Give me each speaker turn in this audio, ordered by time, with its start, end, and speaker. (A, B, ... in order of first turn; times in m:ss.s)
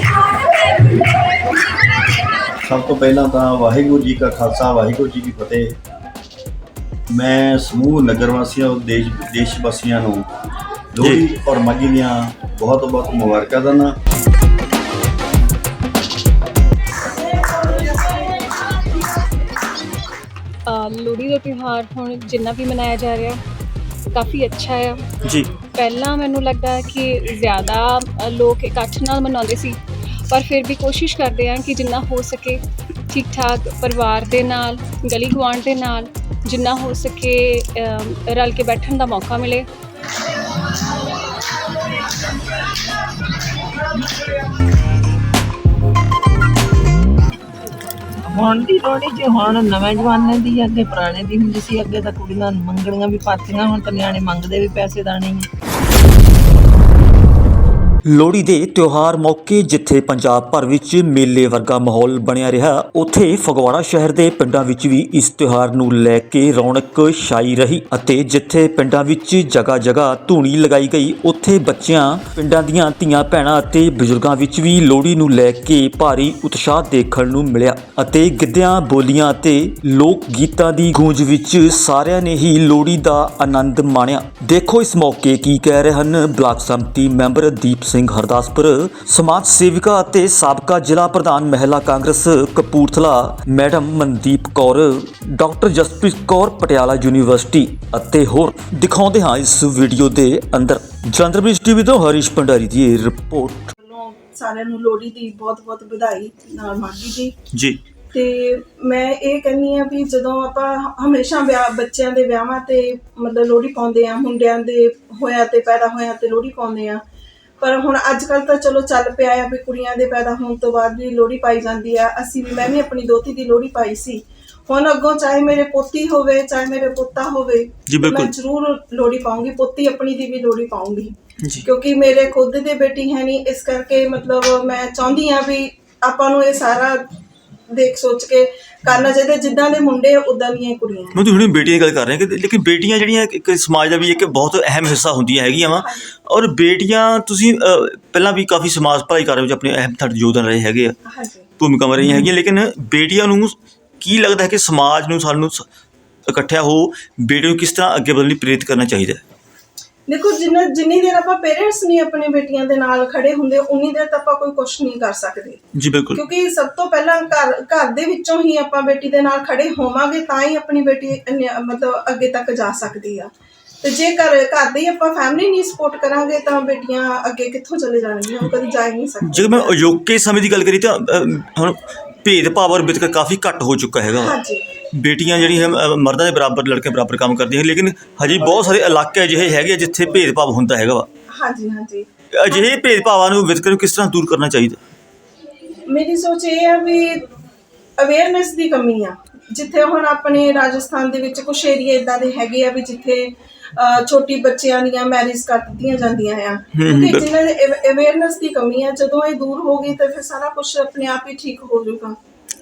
0:02.6-0:05.8 A
0:07.1-0:10.3 A
0:11.0-0:14.0 A
0:11.0-0:11.2 B
0:20.7-0:23.4 C
0:24.1-0:25.1 C
0:25.2-0:25.5 B
0:25.8-0:29.8 C
0:30.3-0:39.7 C
0:48.2-0:55.5 D
0:58.1-1:43.7 B
1:43.8-1:47.3 E
1:47.5-1:47.8 B
1:48.1-1:57.0 E
1:57.6-2:17.0 E
2:07.9-2:08.3 B
2:17.7-2:21.2 E
2:21.2-2:31.0 B
2:25.8-2:26.0 E
2:31.1-2:31.5 E
2:31.6-2:35.7 B
2:36.3-2:39.2 B
2:40.1-2:45.6 E
2:45.8-2:46.2 B
2:46.1-2:53.3 E
2:53.8-2:59.8 E
2:59.2-3:04.4 B
3:04.2-3:04.7 E
3:04.9-3:11.1 B
3:11.3-3:12.8 E
3:12.3-3:14.8 B
3:15.9-3:17.2 E
3:18.0-3:32.2 E
3:26.7-3:27.3 B